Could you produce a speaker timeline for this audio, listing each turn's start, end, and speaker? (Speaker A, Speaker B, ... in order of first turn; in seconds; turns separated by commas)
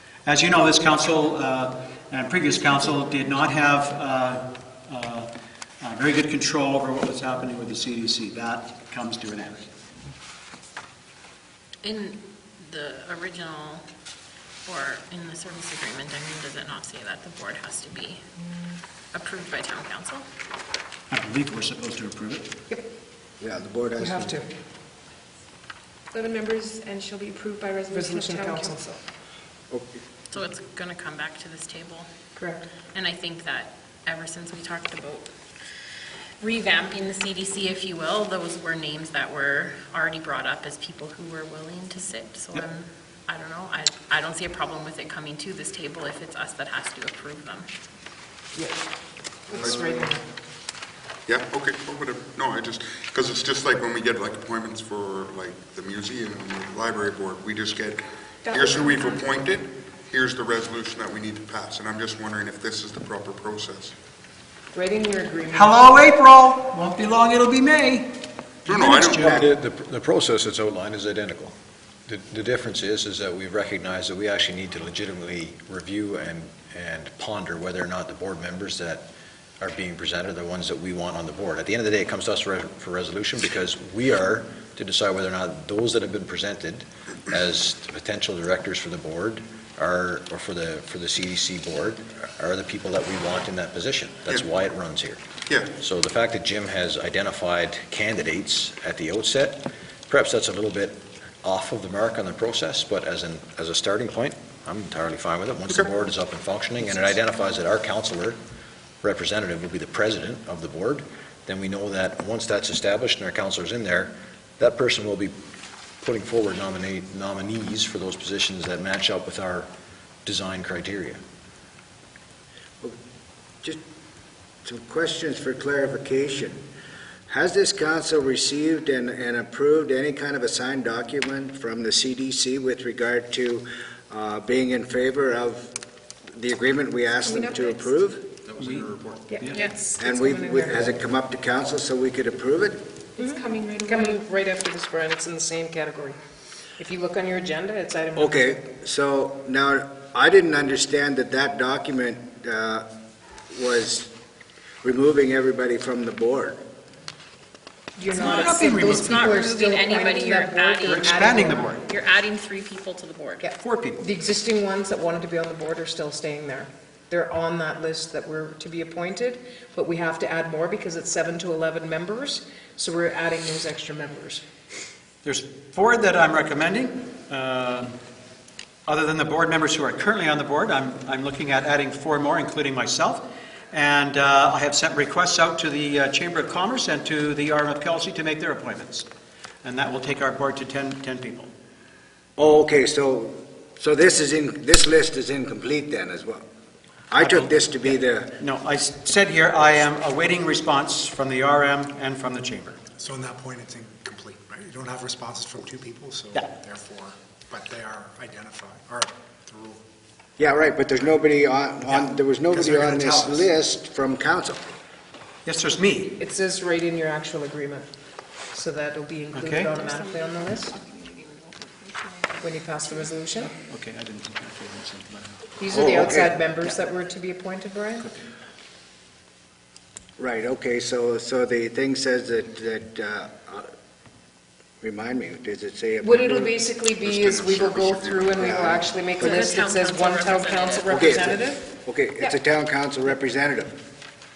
Speaker A: 0.2-5.3, Speaker A: 5.8-9.7, Speaker B: 11.8-13.8, Speaker B: 14.6-18.2, Speaker B: 19.1-20.2, Speaker A: 21.1-22.5, Speaker C: 23.4-24.4, Speaker D: 24.0-24.4, Speaker E: 26.1-28.8, Speaker D: 27.9-29.0, Speaker C: 29.7-29.9, Speaker B: 30.3-32.1, Speaker D: 32.4-32.7, Speaker B: 32.9-35.3, Speaker B: 36.4-47.7, Speaker D: 48.5-48.8, Speaker D: 49.5-50.2, Speaker F: 49.5-49.9, Speaker F: 51.3-63.9, Speaker E: 58.5-59.2, Speaker D: 64.7-65.8, Speaker A: 65.5-68.1, Speaker F: 68.7-69.2, Speaker A: 68.7-69.5, Speaker G: 69.2-71.5, Speaker G: 72.1-79.0, Speaker G: 79.6-95.2, Speaker G: 95.8-108.4, Speaker G: 109.0-115.3, Speaker G: 116.0-119.7, Speaker G: 120.2-121.2, Speaker C: 124.6-126.6, Speaker C: 127.3-135.7, Speaker C: 136.3-138.2, Speaker E: 137.2-137.9, Speaker A: 138.6-139.6, Speaker D: 139.3-140.9, Speaker C: 140.0-142.8, Speaker E: 143.2-144.2, Speaker D: 143.2-146.2, Speaker D: 146.8-148.4, Speaker C: 148.2-152.8, Speaker C: 153.5-154.1, Speaker C: 154.8-156.6, Speaker D: 158.0-161.8, Speaker A: 158.1-159.5, Speaker B: 158.2-163.5, Speaker A: 160.8-161.8, Speaker D: 163.4-174.4, Speaker A: 163.6-164.0, Speaker A: 175.2-178.0, Speaker A: 178.9-189.1, Speaker A: 189.6-191.5, Speaker C: 192.4-196.4, Speaker C: 197.1-198.3, Speaker A: 197.1-202.8, Speaker H: 203.0-209.8, Speaker C: 210.4-214.7, Speaker A: 211.9-213.5, Speaker A: 215.4-216.2, Speaker D: 216.2-217.9, Speaker D: 218.5-220.7, Speaker A: 219.3-219.7, Speaker E: 219.7-223.1, Speaker D: 222.4-223.5, Speaker A: 223.4-225.4, Speaker D: 225.6-228.1, Speaker C: 225.7-226.3, Speaker C: 230.2-233.7, Speaker C: 234.8-236.6, Speaker D: 236.0-241.7, Speaker F: 236.8-238.6, Speaker C: 238.4-238.8, Speaker B: 239.2-241.0, Speaker C: 240.9-243.7